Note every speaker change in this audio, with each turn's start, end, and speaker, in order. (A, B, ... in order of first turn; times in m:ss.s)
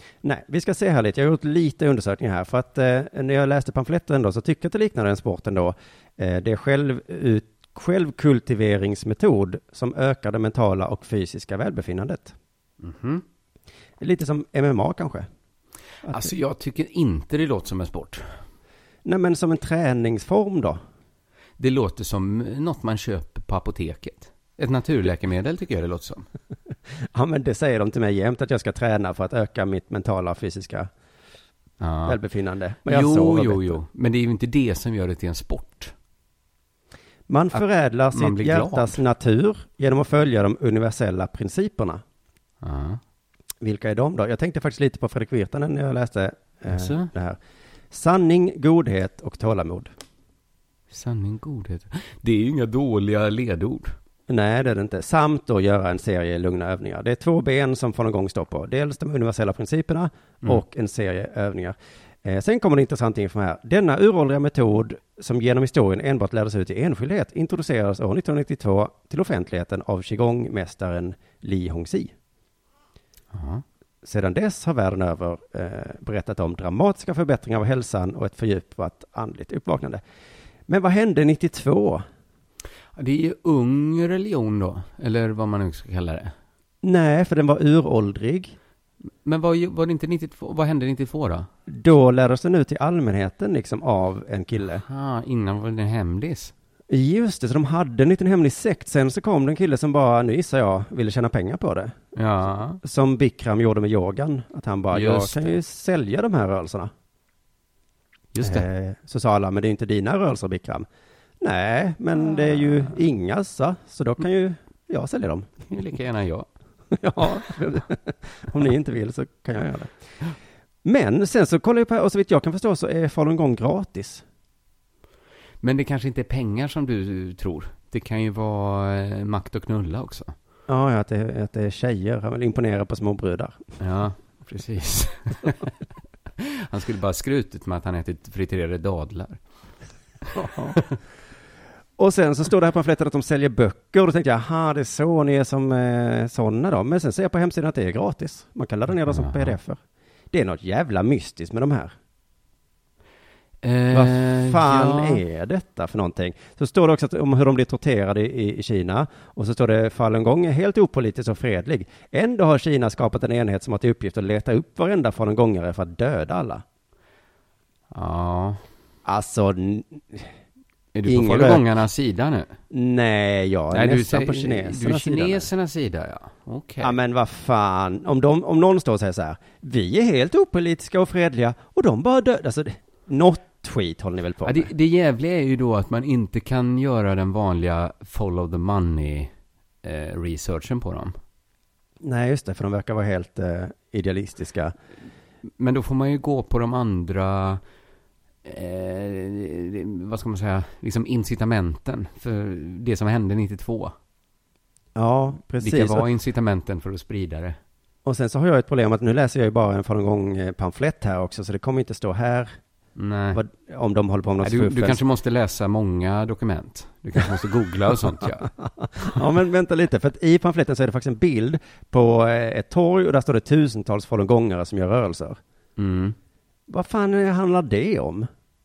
0:00.2-0:12.3 A
0:12.8-0:13.2 B
0:14.0-0:15.3 A
0:16.0-0:16.3 A
0:16.1-0:18.2 B
0:19.0-0:20.8 A
0:21.6-0:26.2 B
0:27.1-0:30.9 A
0:31.8-0:32.2 B
0:32.0-0:33.8 A
0:32.9-0:35.9 B
0:37.3-0:42.0 A
0:37.5-0:39.0 B
0:42.6-0:43.0 B
0:43.6-0:47.4 A
0:46.7-0:47.1 B
0:47.9-0:49.9 A
0:50.9-0:53.9 B
0:54.3-1:12.1 A
1:13.3-1:13.6 B
1:14.0-1:20.0 A
1:20.7-1:22.0 A
1:22.9-1:26.3 B
1:26.8-1:28.6 A
1:29.2-1:31.5 B
1:31.7-1:34.8 A
1:34.8-1:36.5 B
1:36.9-1:42.0 A
1:42.1-1:42.8 B
1:42.8-1:46.9 A
1:44.9-1:45.6 B
1:48.3-1:48.6 B
1:48.4-1:50.9 A
1:51.4-1:55.7 A
1:55.7-1:56.5 B
1:56.9-1:59.9 A
2:00.8-2:04.2 A
2:05.6-2:10.3 B
2:10.7-2:13.6 A
2:13.8-2:15.7 B
2:16.4-2:19.4 B
2:20.3-2:20.8 A
2:22.0-2:29.8 A
2:29.1-2:29.6 B
2:30.3-2:31.9 A
2:33.6-2:35.2 B
2:33.9-2:46.6 A
2:47.9-2:48.6 B
2:49.0-2:50.3 A
2:50.9-2:52.5 B
2:51.0-2:51.6 A
2:52.7-2:55.5 A
2:53.7-2:57.0 B
2:56.8-3:04.7 A
3:04.4-3:09.3 B
3:09.8-3:11.2 B
3:12.0-3:14.7 A
3:15.6-3:17.6 B
3:18.4-3:23.9 B
3:24.9-3:26.1 A
3:25.6-3:27.6 B
3:28.0-3:32.5 A
3:33.0-3:33.4 B
3:33.3-3:35.0 A
3:34.4-3:38.5 B
3:38.4-3:45.4 A
3:45.8-3:46.2 B
3:46.7-3:48.3 A